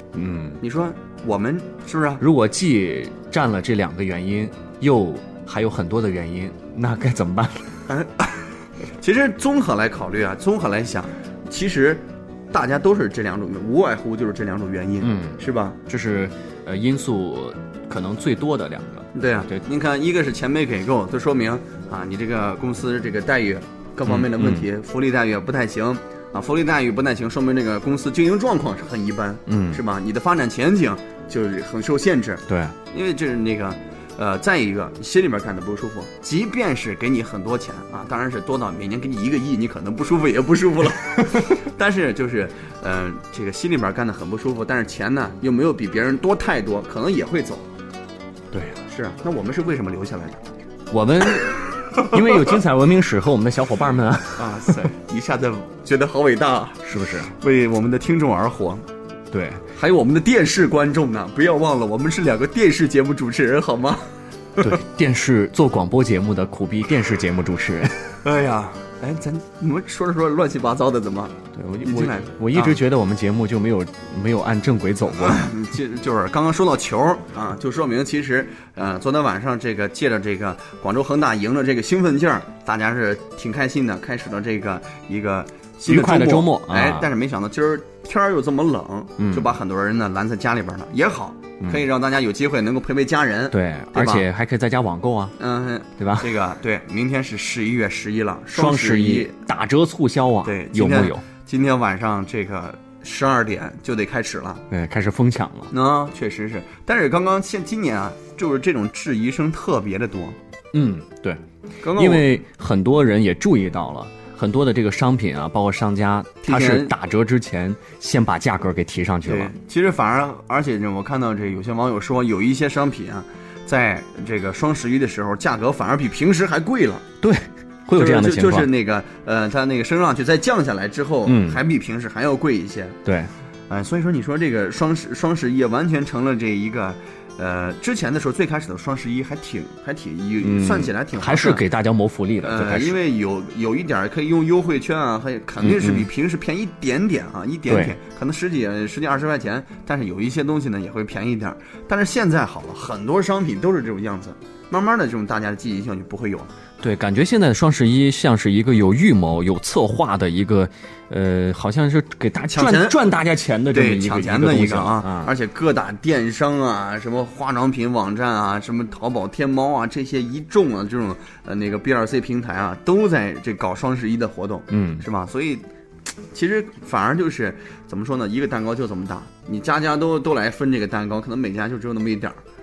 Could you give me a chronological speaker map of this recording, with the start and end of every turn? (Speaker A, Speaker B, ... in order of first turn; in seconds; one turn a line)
Speaker A: 0.1-0.6
Speaker B: 0.6-2.2
Speaker A: 2.2-7.7
Speaker B: 7.9-15.8
Speaker A: 15.0-19.6
Speaker B: 19.1-47.6
Speaker A: 24.1-24.6
Speaker A: 29.5-29.8
Speaker A: 32.5-32.7
Speaker A: 48.5-48.8
Speaker B: 48.9-50.4
Speaker A: 50.9-54.7
Speaker B: 54.4-58.9
Speaker A: 56.8-57.3
Speaker A: 59.3-59.6
Speaker B: 59.7-64.0
Speaker A: 64.6-68.2
Speaker B: 68.2-72.8
Speaker A: 71.5-75.5
Speaker B: 75.2-94.2
Speaker A: 85.9-87.1
Speaker A: 89.2-89.5
Speaker A: 93.5-95.3
Speaker B: 95.4-99.3
Speaker A: 96.0-96.3
Speaker A: 98.5-101.2
Speaker B: 100.4-104.6
Speaker A: 104.7-105.7
Speaker B: 105.7-110.4
Speaker A: 110.7-119.5
Speaker B: 111.8-112.3
Speaker B: 116.4-116.9
Speaker B: 119.2-127.0
Speaker A: 127.2-128.7
Speaker B: 127.9-133.0
Speaker A: 131.2-131.6
Speaker A: 133.0-133.3
Speaker B: 133.7-141.6
Speaker A: 140.4-143.0
Speaker B: 142.4-156.5
Speaker A: 145.6-146.1
Speaker A: 147.7-147.9
Speaker A: 156.8-165.3
Speaker B: 162.5-163.0
Speaker B: 163.7-175.6
Speaker A: 174.7-175.0
Speaker B: 176.3-182.4